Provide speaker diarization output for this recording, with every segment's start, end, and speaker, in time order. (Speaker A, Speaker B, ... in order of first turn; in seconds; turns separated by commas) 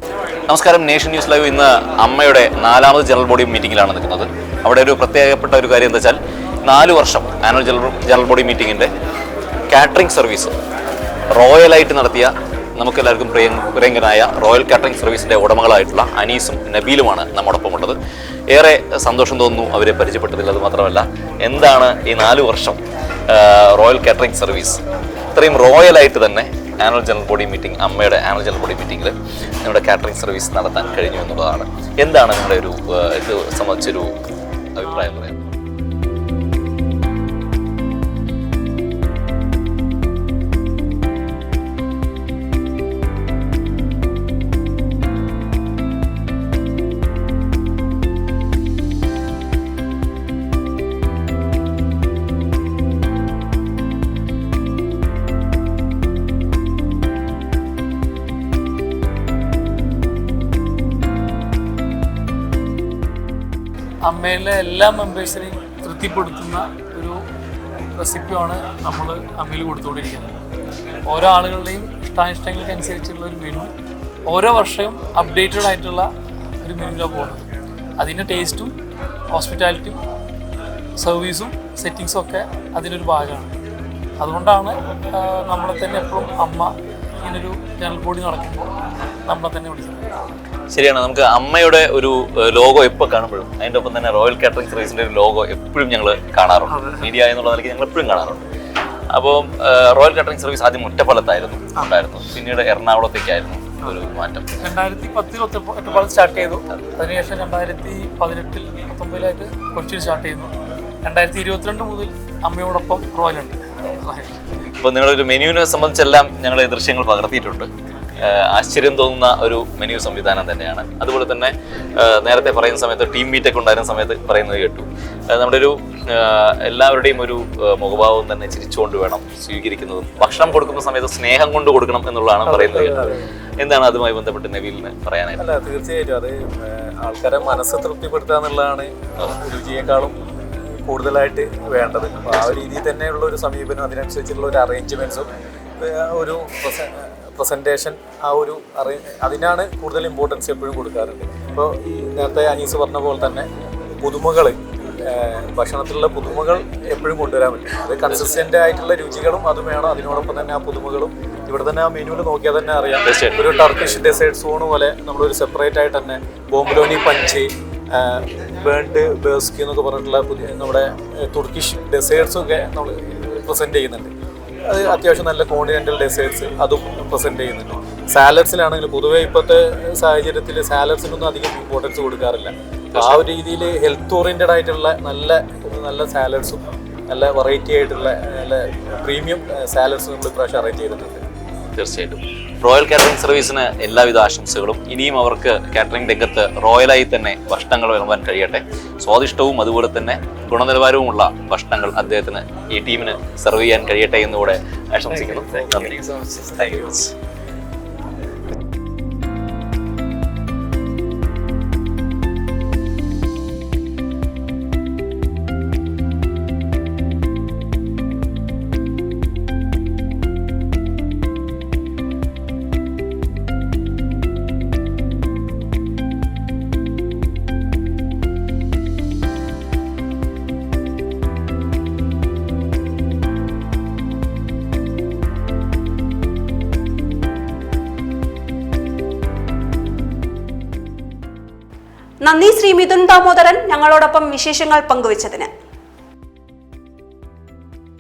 Speaker A: 0.5-8.9, Speaker A: 9.7-10.6, Speaker A: 11.3-18.0, Speaker A: 18.5-24.8, Speaker A: 25.4-34.1, Speaker A: 34.7-35.4, Speaker B: 64.1-67.2, Speaker B: 68.0-70.3, Speaker B: 71.1-73.7, Speaker B: 74.3-76.1, Speaker B: 76.6-77.5, Speaker B: 78.0-78.7, Speaker B: 79.3-80.0, Speaker B: 81.0-83.5, Speaker B: 84.2-88.7, Speaker B: 89.3-90.0, Speaker A: 90.7-98.4, Speaker B: 96.7-97.0, Speaker A: 99.1-104.5, Speaker B: 104.6-110.5, Speaker B: 111.0-114.5, Speaker A: 114.7-117.7, Speaker A: 118.2-135.4, Speaker C: 132.4-133.3, Speaker C: 135.4-140.2, Speaker C: 140.8-145.3, Speaker C: 145.8-153.5, Speaker C: 154.0-174.1, Speaker A: 158.1-158.4, Speaker A: 163.1-163.4, Speaker C: 174.7-191.2, Speaker A: 182.9-183.2, Speaker A: 191.8-206.0, Speaker B: 205.5-206.7, Speaker A: 206.6-207.1, Speaker D: 242.2-245.5